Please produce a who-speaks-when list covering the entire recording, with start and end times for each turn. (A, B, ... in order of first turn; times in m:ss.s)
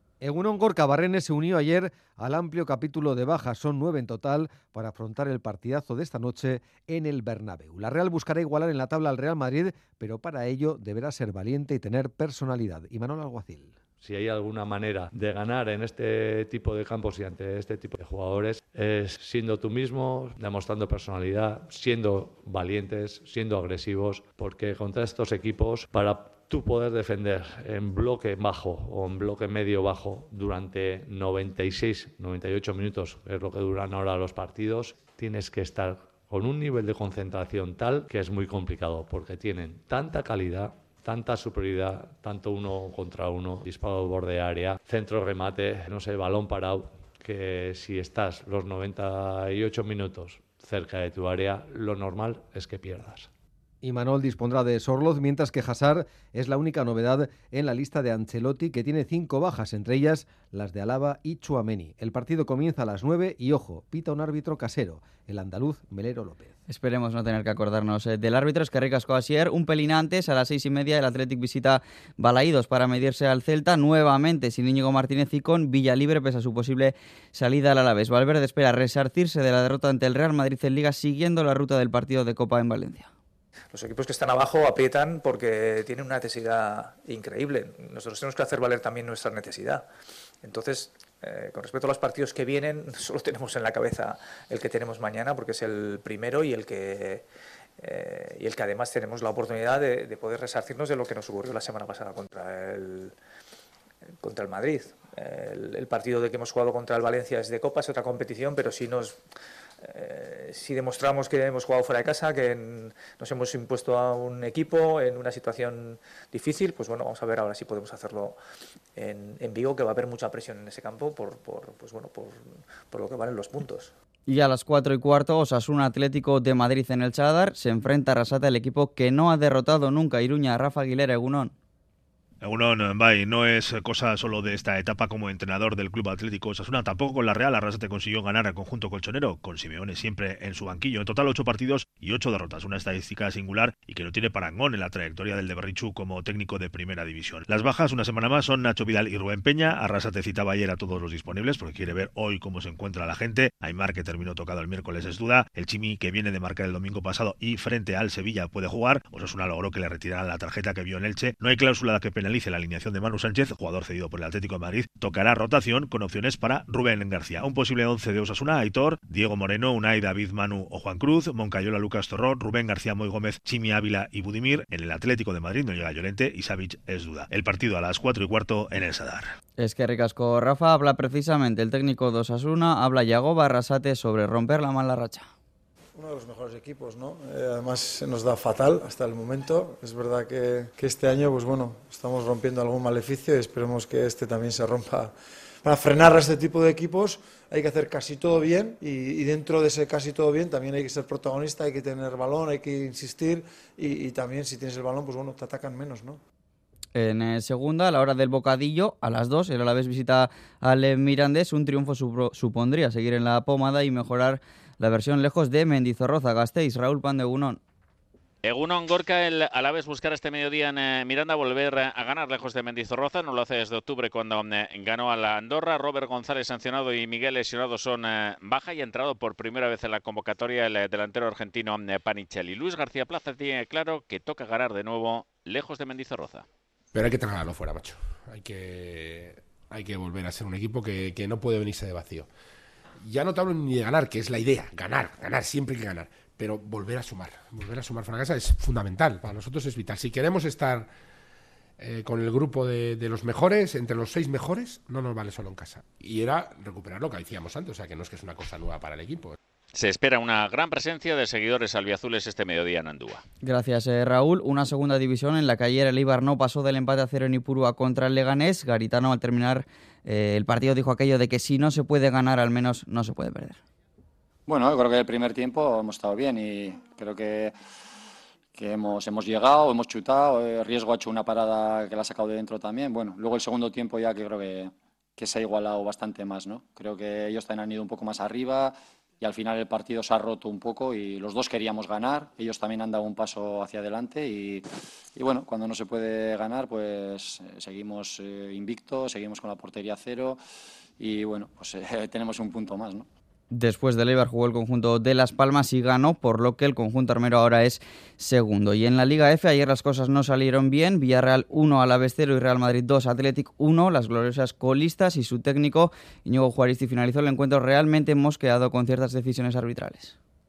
0:00.2-0:13.8 A
0:14.0-0:53.3 B
0:53.8-1:06.5 A
1:06.7-1:23.1 C
1:23.7-1:29.8 D
1:30.4-1:37.3 D
1:37.8-1:43.2 D
1:44.2-1:49.2 D
1:49.8-1:58.4 D
1:58.9-2:03.9 D
2:04.3-2:11.5 C
2:12.4-2:59.2 E
2:59.6-3:05.2 C
3:05.9-3:15.1 F
3:15.6-3:26.2 F
3:26.9-3:37.6 C
3:38.4-3:56.4 G
3:56.9-4:02.3 H
4:03.0-4:10.9 H
4:11.8-4:19.4 H
4:19.7-4:23.2 G
4:23.4-4:33.6 C
4:34.5-4:37.5 I
4:38.5-5:00.4 I
5:01.0-5:03.1 I
5:03.5-5:20.1 C